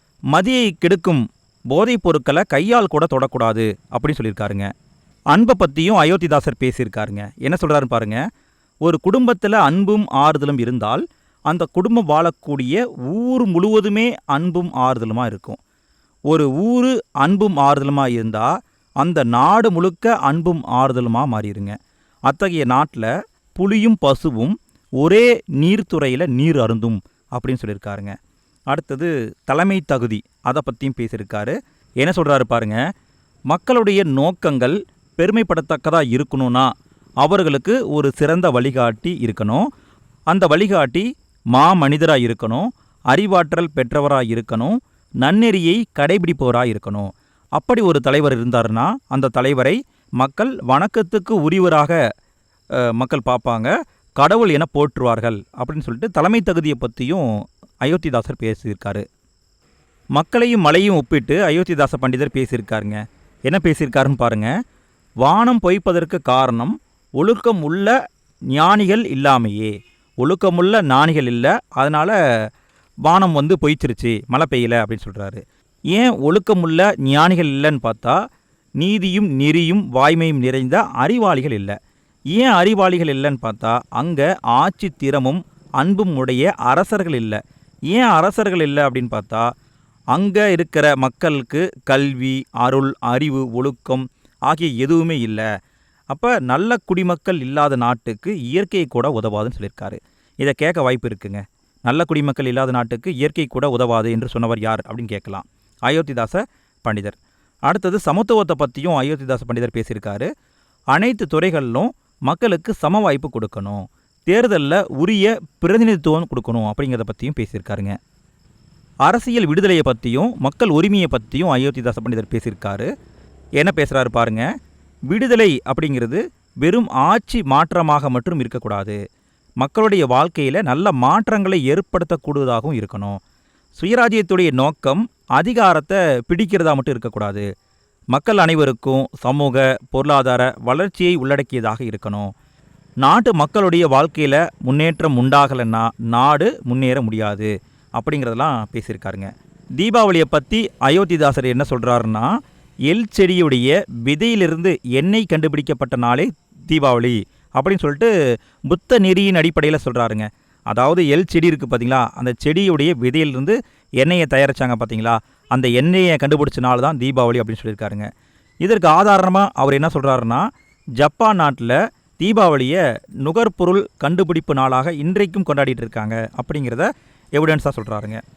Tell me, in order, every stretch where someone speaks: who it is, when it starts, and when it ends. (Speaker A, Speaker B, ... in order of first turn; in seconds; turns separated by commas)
Speaker A: 0.3-4.7, Speaker A: 5.3-8.2, Speaker A: 8.8-15.6, Speaker A: 16.3-21.8, Speaker A: 22.3-28.2, Speaker A: 28.7-32.8, Speaker A: 33.5-36.7, Speaker A: 37.2-39.7, Speaker A: 40.3-52.0, Speaker A: 52.8-57.3, Speaker A: 57.8-59.0, Speaker A: 60.1-64.5, Speaker A: 65.2-68.0, Speaker A: 68.5-72.2, Speaker A: 73.0-78.2, Speaker A: 78.8-81.8, Speaker A: 82.3-89.5, Speaker A: 90.2-95.5, Speaker A: 96.1-110.3, Speaker A: 110.9-118.0, Speaker A: 119.0-122.9, Speaker A: 123.6-124.5, Speaker A: 125.1-129.0, Speaker A: 129.6-133.2, Speaker A: 133.8-137.5, Speaker A: 138.1-142.3, Speaker A: 143.0-152.3, Speaker A: 152.9-158.1, Speaker A: 158.7-168.1, Speaker A: 168.6-170.5, Speaker A: 171.0-178.2